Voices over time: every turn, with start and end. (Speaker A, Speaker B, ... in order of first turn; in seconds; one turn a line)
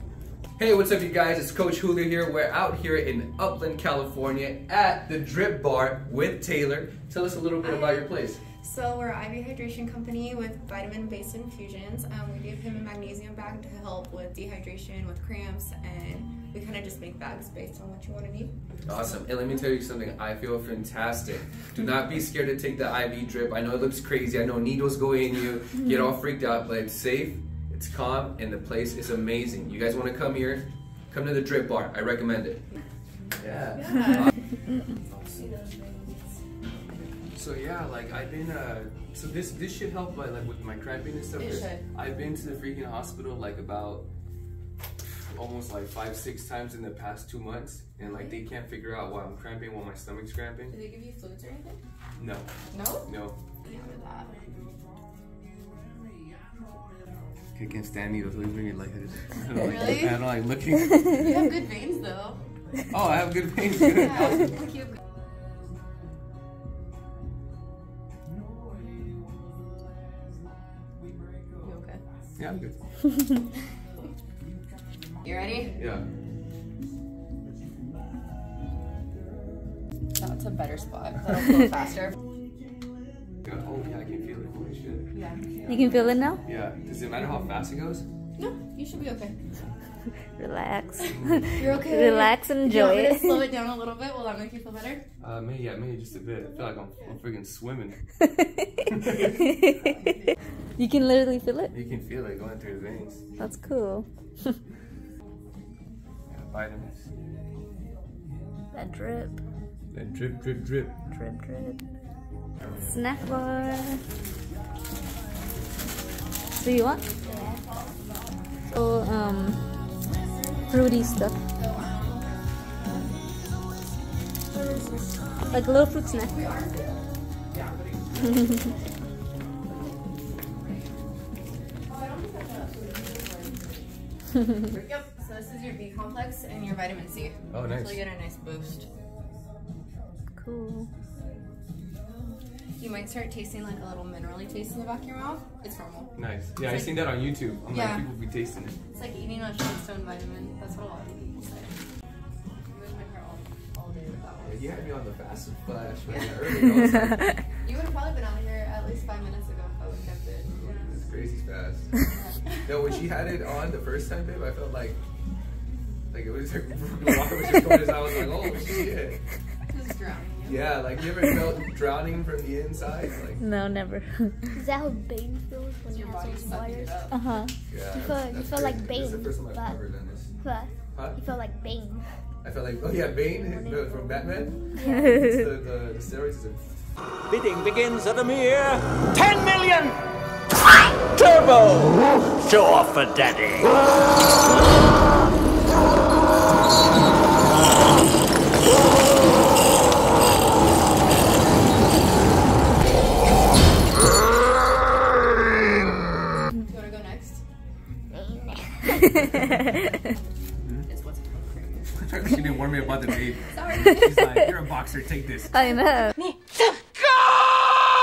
Speaker A: 0.6-8.4
Speaker B: 7.6-19.4
Speaker A: 18.8-32.7
Speaker A: 33.4-34.3
Speaker B: 33.7-34.3
Speaker A: 35.1-35.4
Speaker B: 35.2-37.1
Speaker A: 37.3-44.1
Speaker B: 41.4-41.8
Speaker A: 45.3-50.8
Speaker B: 48.0-48.4
Speaker B: 50.7-51.8
Speaker A: 52.2-52.5
Speaker B: 52.7-53.1
Speaker A: 53.0-53.4
Speaker B: 53.6-54.5
Speaker A: 57.5-61.4
Speaker B: 59.6-60.2
Speaker B: 61.1-62.4
Speaker A: 62.9-64.5
Speaker B: 64.0-64.5
Speaker B: 71.6-72.0
Speaker A: 72.4-72.7
Speaker B: 75.2-75.8
Speaker A: 75.8-76.0
Speaker B: 80.1-82.1
Speaker A: 83.4-85.1
Speaker B: 85.1-86.0
Speaker C: 85.7-86.4
Speaker A: 86.4-88.0
Speaker B: 88.3-89.3
Speaker C: 90.4-93.5
Speaker A: 91.1-91.8
Speaker B: 91.5-95.0
Speaker A: 95.2-98.0
Speaker A: 98.9-99.2
Speaker C: 99.4-99.9
Speaker B: 99.8-100.3
Speaker C: 100.8-101.7
Speaker A: 101.7-103.2
Speaker C: 103.4-104.5
Speaker A: 106.3-107.0
Speaker C: 108.7-109.4
Speaker A: 109.9-110.9
Speaker C: 111.1-111.8
Speaker C: 112.8-114.0
Speaker C: 116.5-117.1
Speaker B: 117.2-118.1
Speaker D: 117.2-117.7
Speaker C: 118.7-119.6
Speaker B: 120.1-123.3
Speaker C: 120.7-121.4
Speaker B: 124.5-128.8
Speaker C: 125.5-126.3
Speaker B: 130.5-130.9
Speaker B: 131.8-133.9
Speaker B: 134.7-138.8
Speaker A: 137.5-138.0
Speaker C: 140.4-140.9
Speaker B: 142.8-148.1
Speaker A: 146.2-148.8
Speaker B: 148.9-151.8
Speaker B: 152.7-154.9
Speaker A: 154.4-157.3
Speaker B: 156.1-156.9
Speaker B: 157.6-161.0
Speaker A: 160.5-161.9
Speaker B: 162.1-162.5
Speaker A: 162.5-165.0
Speaker A: 166.1-169.2
Speaker B: 169.7-170.8
Speaker A: 170.4-173.4
Speaker C: 173.4-174.5
Speaker D: 174.5-177.1
Speaker B: 175.9-177.1
Speaker C: 177.1-177.5
Speaker A: 177.7-180.3
Speaker D: 177.9-179.8
Speaker D: 180.4-182.0
Speaker A: 180.9-181.2
Speaker A: 182.4-186.7
Speaker D: 183.3-184.2
Speaker D: 184.7-185.3
Speaker C: 184.9-185.3
Speaker E: 187.3-190.0
Speaker E: 191.2-193.7
Speaker B: 206.6-207.4
Speaker D: 208.1-209.0
Speaker A: 210.6-210.8
Speaker B: 210.8-211.9
Speaker A: 211.9-215.5
Speaker B: 213.5-214.3
Speaker C: 215.5-216.1
Speaker B: 215.6-217.0